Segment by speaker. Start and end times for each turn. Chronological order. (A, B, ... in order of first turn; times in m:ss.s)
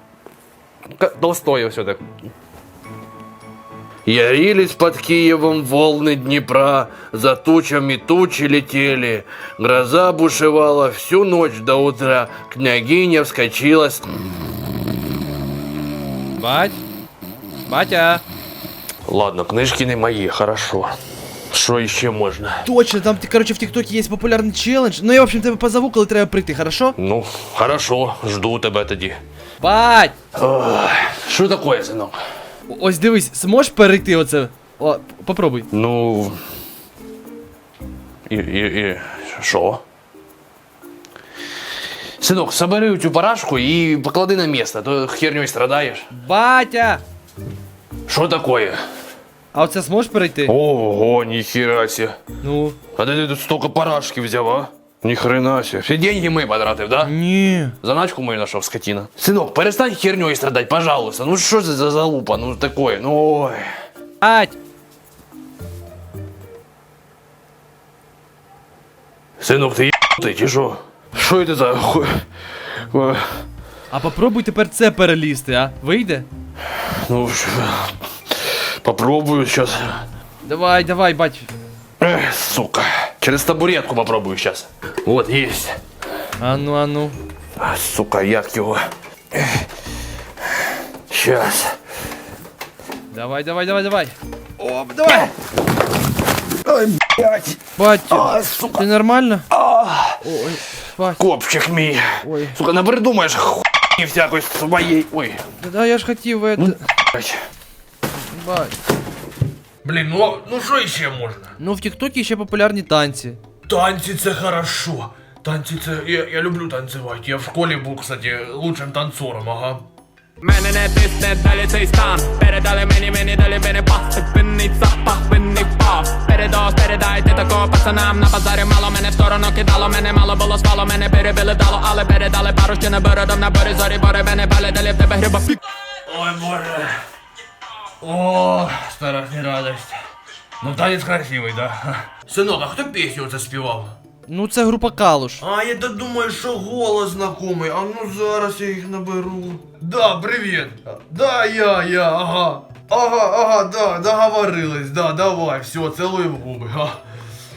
0:01.0-0:02.1 A
0:04.1-0:14.0 A
0:16.4-0:16.8 B
0:17.7-0:18.2 B
0:19.1-0:21.0 A
0:21.5-0:22.7 A
0:22.6-0:27.0 B
0:27.0-0:29.2 A
0:29.6-0:30.2 B
0:30.3-0:32.2 A
0:32.7-0:35.7 B
0:35.7-0:36.4 A
0:38.3-0:39.8 A
0:42.2-0:46.1 A
0:46.1-0:47.0 B
0:48.1-0:48.8 A
0:49.5-0:50.5 B
0:50.4-0:52.2 A
0:52.4-0:52.8 B
0:52.9-0:57.2 A
0:57.0-0:57.7 B
0:57.8-1:03.6 A
1:04.2-1:04.6 B
1:09.4-1:12.2 A
1:12.8-1:13.4 A
1:13.9-1:16.3 B
1:16.7-1:20.0 A
1:20.4-1:21.5 B
1:22.0-1:25.8 A
1:26.4-1:27.2 B
1:27.6-1:28.8 A
1:29.3-1:29.7 A
1:31.1-1:31.8 A
1:33.1-1:35.3 B
1:36.7-1:38.9 A
1:37.8-1:39.5 B
1:39.5-1:40.2 A
1:40.2-1:41.2 B
1:41.2-1:45.4 A
1:42.2-1:42.6 B
1:45.6-1:46.8 B
1:46.6-1:47.4 A
1:48.1-1:48.8 B
1:49.8-1:51.6 A
1:51.6-1:53.4 B
1:53.7-1:59.8 A
2:00.4-2:15.6 C
2:16.0-2:17.0 A
2:18.0-2:20.0 A
2:20.6-2:24.0 A
2:24.3-2:25.4 B
2:25.4-2:37.0 A